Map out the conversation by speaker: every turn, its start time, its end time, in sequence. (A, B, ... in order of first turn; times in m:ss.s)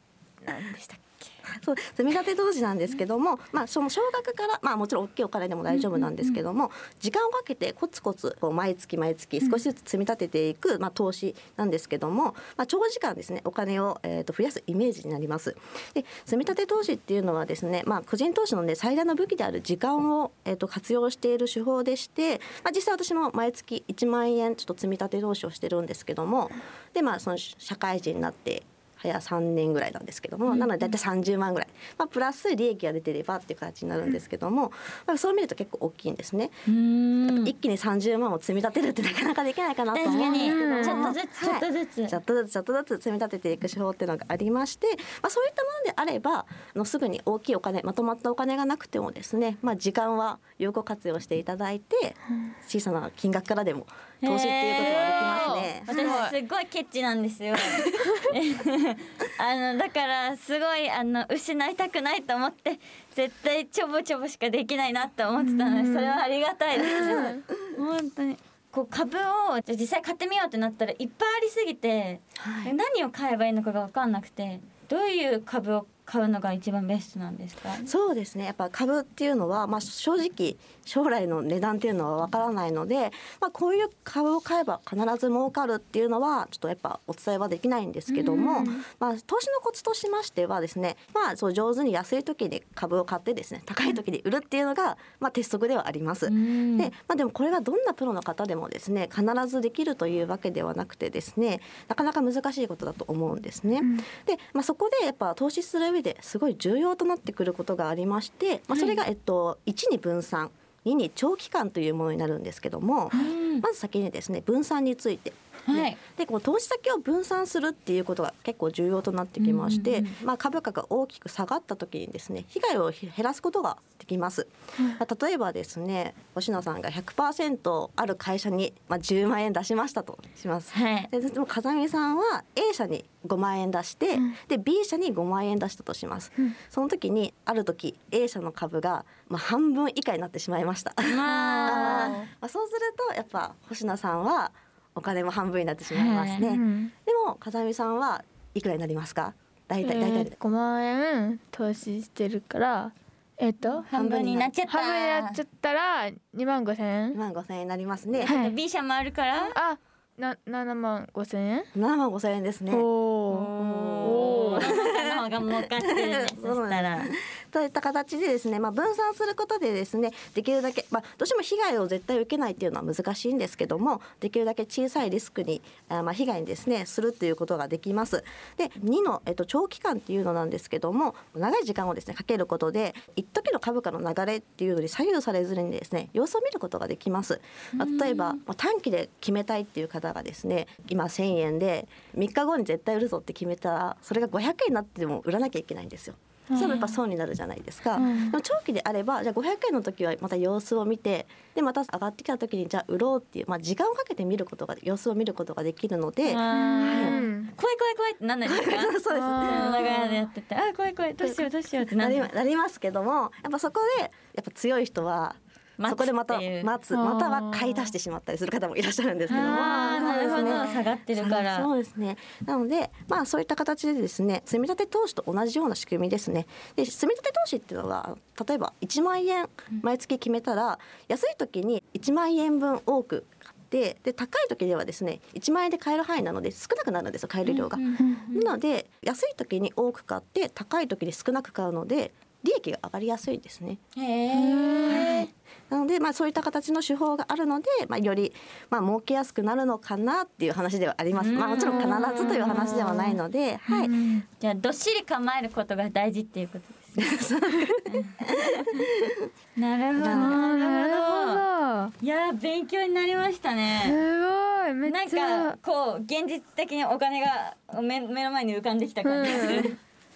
0:00.4-0:01.4 A
0:01.4-0:36.6 B
0:05.9-0:06.3 C
0:36.6-0:37.5 C
0:37.3-0:56.2 B
0:39.9-0:42.2 C
0:40.1-0:41.2 A
0:54.2-1:17.9 C
0:54.8-0:56.3 A
0:58.0-0:58.3 A
1:05.4-1:06.2 A
1:06.8-1:07.4 A
1:06.8-1:07.3 B
1:12.4-1:12.7 B
1:17.8-2:30.3 B
1:28.1-1:28.7 C
1:28.3-1:28.8 A
1:36.2-1:36.9 C
1:53.1-1:53.6 C
1:55.7-1:56.0 C
1:59.4-2:00.1 C
2:10.7-2:11.1 C
2:21.0-2:22.2 C
2:21.3-2:22.3 A
2:25.9-2:26.4 C
2:26.4-2:26.9 A
2:29.8-2:33.8 A
2:33.8-2:35.4 C
2:33.9-2:34.5 B
2:34.7-2:37.2 A
2:37.1-2:38.3 B
2:38.2-2:39.6 C
2:38.2-2:38.5 A
2:39.5-2:41.7 A
2:41.7-2:42.8 B
2:42.7-2:44.7 A
2:43.3-2:47.1 C
2:43.5-3:27.2 B
3:07.8-3:08.3 C
3:16.6-3:16.9 C
3:18.0-3:18.3 A
3:26.2-3:32.3 C
3:26.5-3:27.5 A
3:28.4-3:30.0 B
3:29.2-3:29.9 A
3:31.2-4:03.8 B
3:35.8-3:36.7 C
3:36.9-3:37.9 A
3:39.3-3:40.8 A
3:39.3-3:41.7 C
3:57.4-3:58.5 C
4:03.9-4:05.3 C
4:04.3-4:05.1 A
4:04.9-4:13.9 B
4:11.2-4:13.2 C
4:11.6-4:12.9 A
4:13.7-4:14.2 A
4:14.4-4:17.1 C
4:17.0-4:19.3 B
4:17.9-4:18.8 C
4:19.6-4:21.4 C
4:20.0-4:20.4 B
4:20.0-4:21.9 A
4:22.0-4:24.0 C
4:23.8-4:25.6 A
4:24.8-4:29.7 C
4:29.0-4:29.7 A